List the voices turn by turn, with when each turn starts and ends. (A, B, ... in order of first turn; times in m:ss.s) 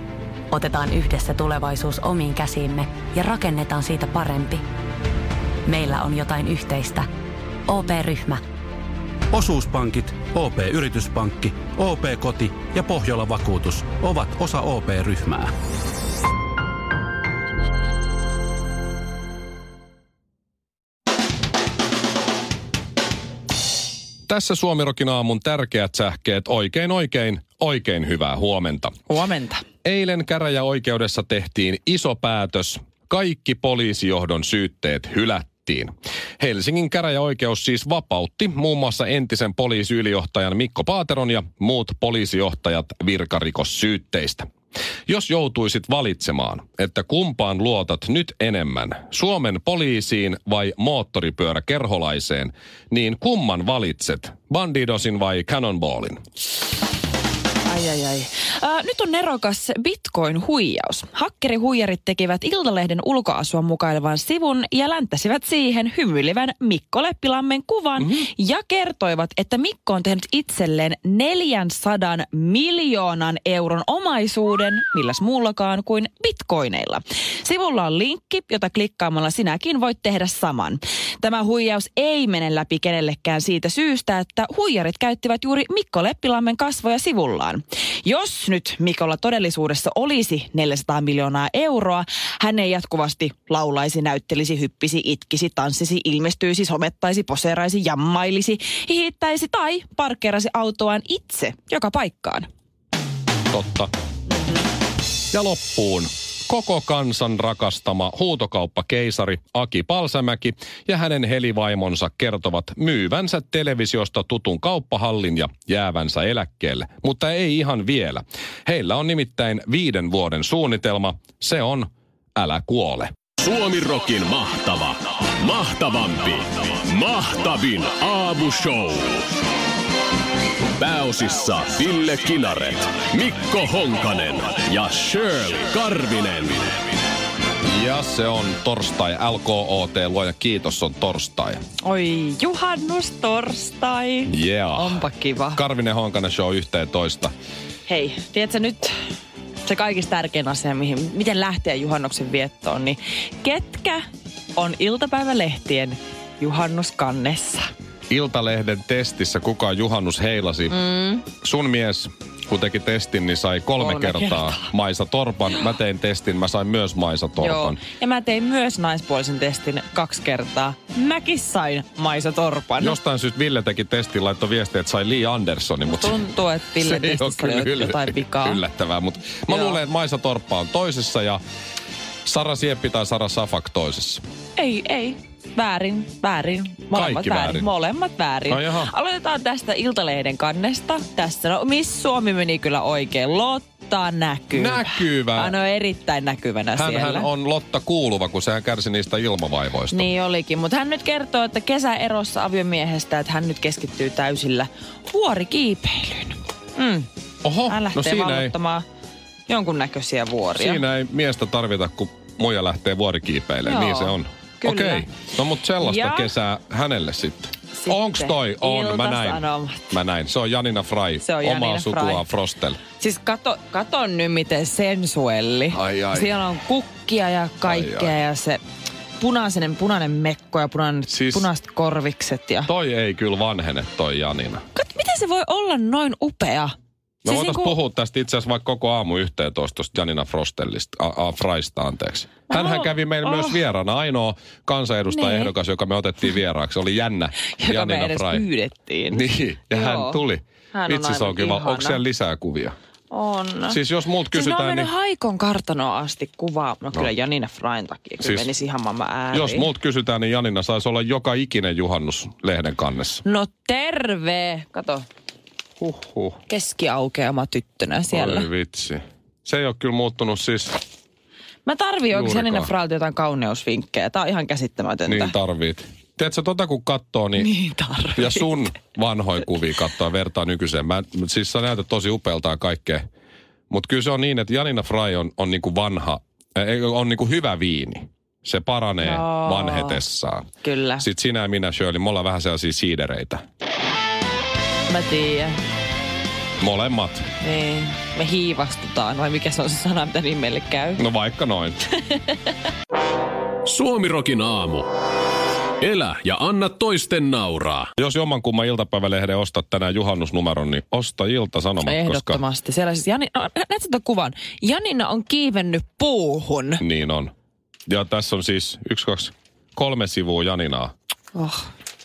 0:00.5-0:04.6 A
0:05.7-0:07.0 A
0:07.7-0:08.4 A
0:09.3-0:15.5 B
0:24.3-0:29.0 C
0:29.1-0:29.6 D
0:29.8-0:44.4 C
0:45.1-0:56.2 C
0:57.7-1:42.5 D
1:43.5-1:43.9 C
1:45.3-2:03.1 C
2:03.4-2:09.2 E
2:10.8-2:16.7 E
2:17.7-2:21.6 C
2:21.8-2:25.6 D
2:24.3-2:25.0 C
2:25.6-2:27.3 C
2:27.9-2:28.9 D
2:29.6-2:37.7 D
2:38.1-2:40.7 C
2:40.7-2:41.2 D
2:41.4-2:47.8 C
2:43.8-2:44.7 D
2:47.4-2:53.0 D
2:52.8-2:56.2 C
2:55.8-2:58.6 D
2:56.8-3:01.4 C
2:59.5-2:59.8 D
3:02.2-3:04.2 C
3:04.6-3:17.3 D
3:06.9-3:07.7 C
3:08.5-3:08.9 C
3:14.6-3:15.5 C
3:16.8-3:20.0 C
3:19.9-3:27.1 D
3:27.4-3:28.5 C
3:27.7-3:28.8 D
3:29.5-3:30.8 D
3:30.6-3:42.8 C
3:33.6-3:35.1 D
3:35.8-3:36.3 D
3:37.8-3:39.9 D
3:41.2-3:42.2 D
3:43.0-3:48.6 D
3:45.7-3:46.4 C
3:47.7-3:48.1 C
3:49.2-3:52.7 D
3:51.1-3:51.4 C
3:52.7-3:54.6 C
3:54.7-3:56.7 D
3:57.2-3:57.8 D
3:57.2-4:08.4 C
4:02.5-4:03.6 D
4:05.1-4:05.5 D
4:07.6-4:10.2 D
4:09.1-4:12.7 C
4:10.7-4:12.0 D
4:13.1-4:13.8 D
4:13.7-4:14.9 C
4:14.3-4:19.7 D
4:18.2-4:18.5 C
4:19.3-4:23.2 C
4:23.2-4:25.1 D
4:25.8-4:26.4 C
4:26.5-4:28.5 D
4:28.1-4:30.8 C
4:31.6-4:35.4 D
4:32.2-4:32.7 C
4:35.1-4:37.5 C
4:37.4-4:38.6 D
4:38.2-4:43.0 C
4:43.7-4:50.4 C
4:49.0-4:50.0 D
4:50.6-4:51.0 D
4:51.0-4:53.4 C
4:54.9-4:55.6 D
4:56.6-4:57.2 C
4:57.4-5:01.0 D
5:01.0-5:01.8 C
5:03.7-5:04.9 E
5:05.8-5:07.9 E
5:08.0-5:12.4 C
5:11.8-5:16.8 D
5:16.8-5:17.3 C
5:17.9-5:20.9 C
5:21.3-5:21.7 D